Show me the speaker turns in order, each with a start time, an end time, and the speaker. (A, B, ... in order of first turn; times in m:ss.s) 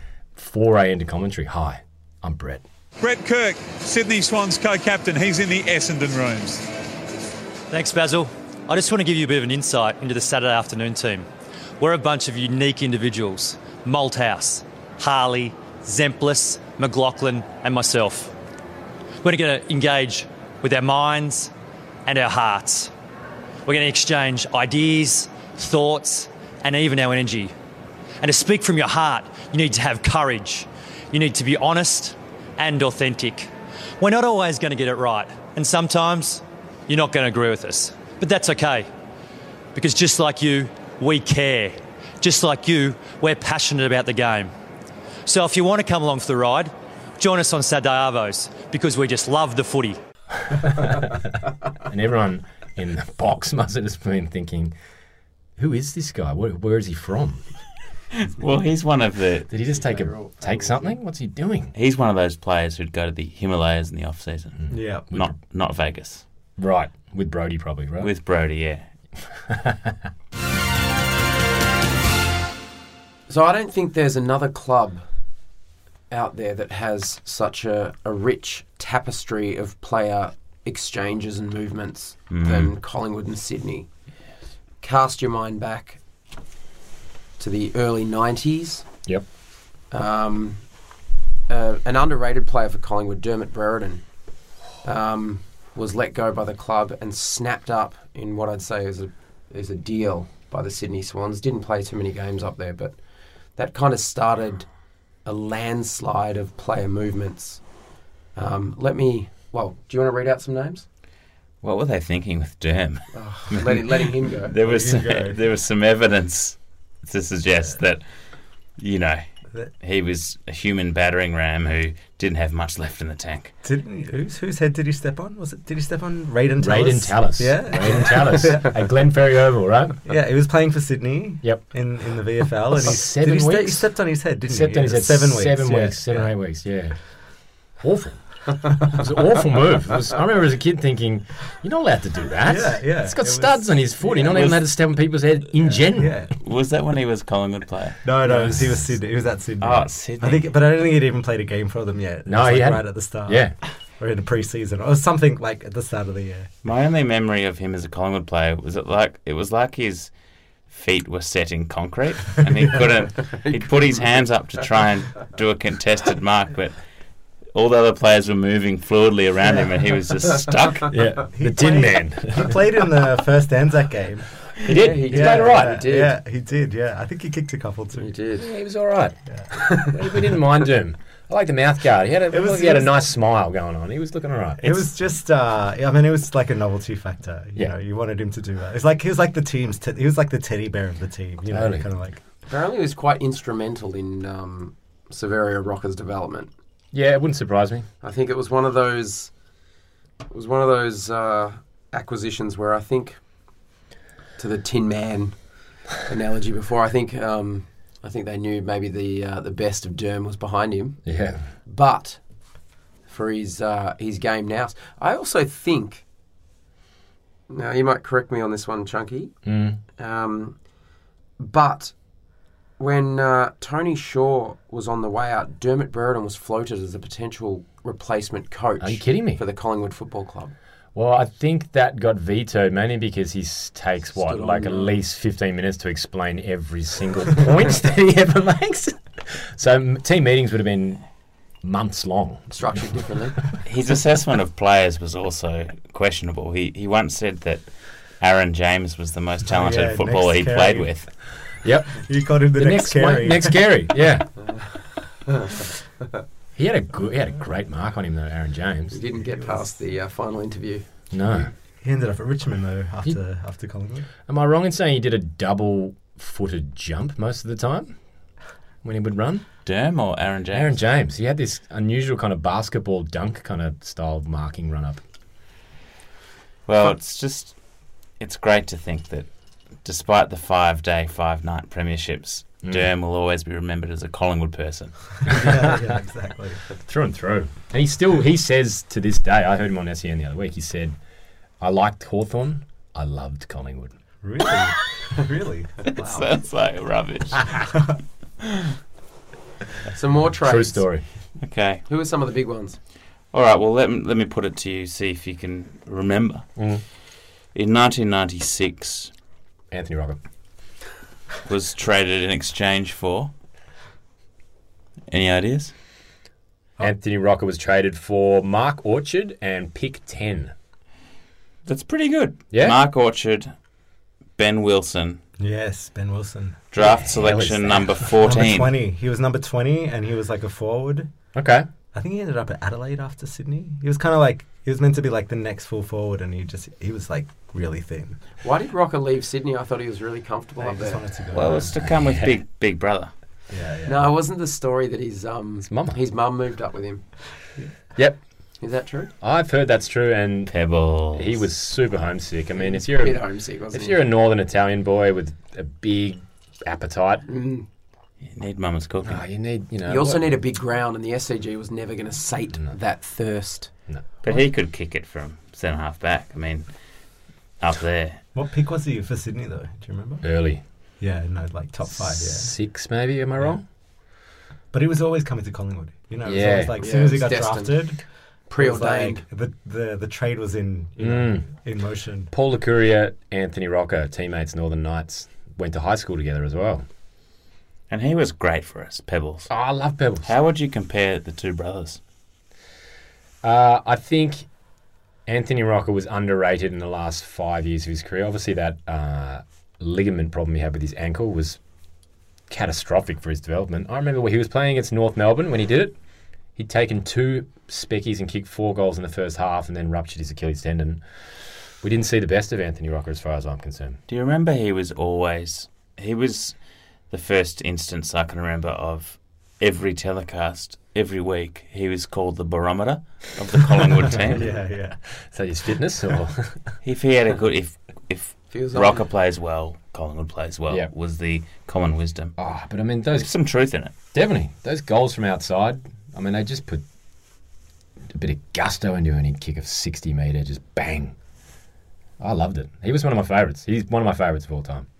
0:00.4-0:02.6 A
0:03.0-0:06.7 B
0:07.7-0:11.3 C
0:11.8-0:18.3 C
0:19.2-0:21.5 C
0:22.0-0:22.9 C
0:23.6-0:27.5 C
0:28.2-0:38.9 C
0:39.7-0:44.5 C
0:45.2-0:50.0 C
0:50.5-0:51.1 A
0:51.8-0:54.7 A
0:55.6-0:57.4 A
0:58.2-0:59.5 D
0:59.5-1:01.7 A
0:59.7-1:00.9 E
1:01.7-1:06.2 D
1:04.7-1:05.1 F
1:04.7-1:05.3 A
1:06.6-1:08.1 A
1:08.0-1:08.8 D
1:09.5-1:10.0 A
1:13.3-1:15.0 E
1:16.1-1:23.9 E
1:22.3-1:22.7 D
1:24.8-1:26.0 E
1:27.4-1:28.8 E
1:29.9-1:30.6 E
1:31.5-1:34.0 E
1:34.8-1:42.9 E
1:43.6-1:44.7 E
1:45.2-1:47.6 E
1:48.4-1:50.8 E
1:51.6-1:58.0 D
1:53.1-1:54.5 E
1:54.6-1:55.4 F
1:58.8-1:59.2 D
1:59.8-2:03.5 D
2:03.6-2:09.0 F
2:06.6-2:10.0 A
2:10.0-2:16.3 F
2:11.4-2:11.7 A
2:12.7-2:17.0 A
2:17.8-2:18.2 A
2:18.8-2:26.2 A
2:22.4-2:24.6 F
2:25.9-2:26.3 F
2:26.4-2:28.0 D
2:28.0-2:36.5 F
2:28.2-2:28.9 A
2:29.6-2:30.5 D
2:32.2-2:33.6 A
2:36.6-2:40.1 D
2:40.7-2:46.8 D
2:43.3-2:44.0 E
2:47.5-2:50.9 D
2:50.9-2:52.6 A
2:51.3-2:54.3 F
2:54.6-2:55.9 A
2:54.6-2:56.1 E
2:55.1-2:58.1 F
2:58.0-2:58.5 E
2:58.3-2:59.2 A
2:59.6-2:59.9 E
2:59.7-3:04.9 A
3:02.3-3:02.9 F
3:04.6-3:12.2 F
3:11.5-3:11.9 A
3:12.5-3:16.5 E
3:16.9-3:17.9 A
3:18.0-3:19.3 E
3:20.3-3:23.2 E
3:24.4-3:25.4 E
3:25.9-3:31.0 E
3:31.0-3:31.5 A
3:31.6-3:32.2 E
3:33.1-3:36.0 E
3:37.5-3:39.3 E
3:39.4-3:39.8 A
3:40.0-3:40.6 E
3:41.4-3:41.9 E
3:42.8-3:50.5 E
3:48.8-3:49.4 A
3:50.9-4:01.0 A
3:54.1-3:55.0 E
4:01.6-4:02.5 A
4:02.5-4:03.4 E
4:03.6-4:11.1 D
4:09.4-4:10.9 F
4:11.6-4:14.3 A
4:11.9-4:13.7 F
4:16.6-4:19.0 A
4:18.9-4:20.8 E
4:21.1-4:21.5 A
4:21.8-4:24.1 F
4:24.3-4:28.0 A
4:28.8-4:29.4 A
4:29.6-4:30.7 D
4:30.5-4:35.0 A
4:36.6-4:37.5 D
4:38.2-4:39.3 D
4:39.8-4:45.3 D
4:45.2-4:46.6 F
4:46.8-4:51.0 A
4:51.6-4:53.9 A
4:54.2-4:56.3 F
4:55.9-4:57.8 D
4:59.9-5:00.8 E
5:00.4-5:01.0 A
5:01.4-5:01.8 D
5:01.9-5:02.8 E
5:03.3-5:06.4 D
5:06.6-5:06.8 A
5:07.5-5:09.1 D
5:09.7-5:10.2 A
5:11.4-5:13.3 D
5:15.1-5:15.7 D
5:16.8-5:20.5 A
5:21.6-5:23.5 D
5:22.5-5:22.8 A
5:24.4-5:25.2 D
5:25.4-5:26.6 F
5:26.7-5:28.7 D
5:26.8-5:28.0 A
5:28.2-5:31.1 F
5:31.3-5:31.7 A
5:31.9-5:38.2 F
5:38.4-5:41.0 E
5:40.6-5:41.7 F
5:41.3-5:43.1 D
5:41.8-5:42.3 A
5:43.5-5:44.1 F
5:43.8-5:47.0 E
5:45.6-5:46.0 A
5:48.6-5:49.1 E
5:49.2-5:50.6 A
5:50.5-5:51.4 D
5:51.1-5:57.2 A
5:52.6-5:54.0 E
5:57.3-5:57.6 E
5:58.2-5:59.2 D
5:59.0-6:00.3 A
5:59.9-6:03.7 E
6:04.2-6:06.7 D
6:07.6-6:08.2 D
6:08.3-6:10.2 F
6:10.2-6:10.6 A
6:11.0-6:12.5 F
6:11.9-6:13.6 A
6:14.7-6:18.0 F
6:16.2-6:16.8 A
6:16.8-6:17.9 E
6:18.5-6:19.2 E
6:18.6-6:22.3 F
6:21.0-6:21.5 A
6:22.3-6:26.8 A
6:27.9-6:29.5 D
6:29.5-6:30.3 A
6:30.2-6:32.0 D
6:33.4-6:34.5 A
6:35.3-6:41.6 A
6:42.5-6:46.0 A
6:46.6-6:51.0 A
6:51.8-6:54.0 A
6:54.1-6:56.5 D
6:57.1-7:04.5 D
7:04.1-7:05.0 F
7:05.2-7:06.6 A
7:06.8-7:12.3 D
7:08.5-7:09.0 E
7:12.4-7:13.3 A
7:13.1-7:13.9 D
7:14.1-7:16.8 A
7:18.1-7:21.1 A
7:22.2-7:24.9 A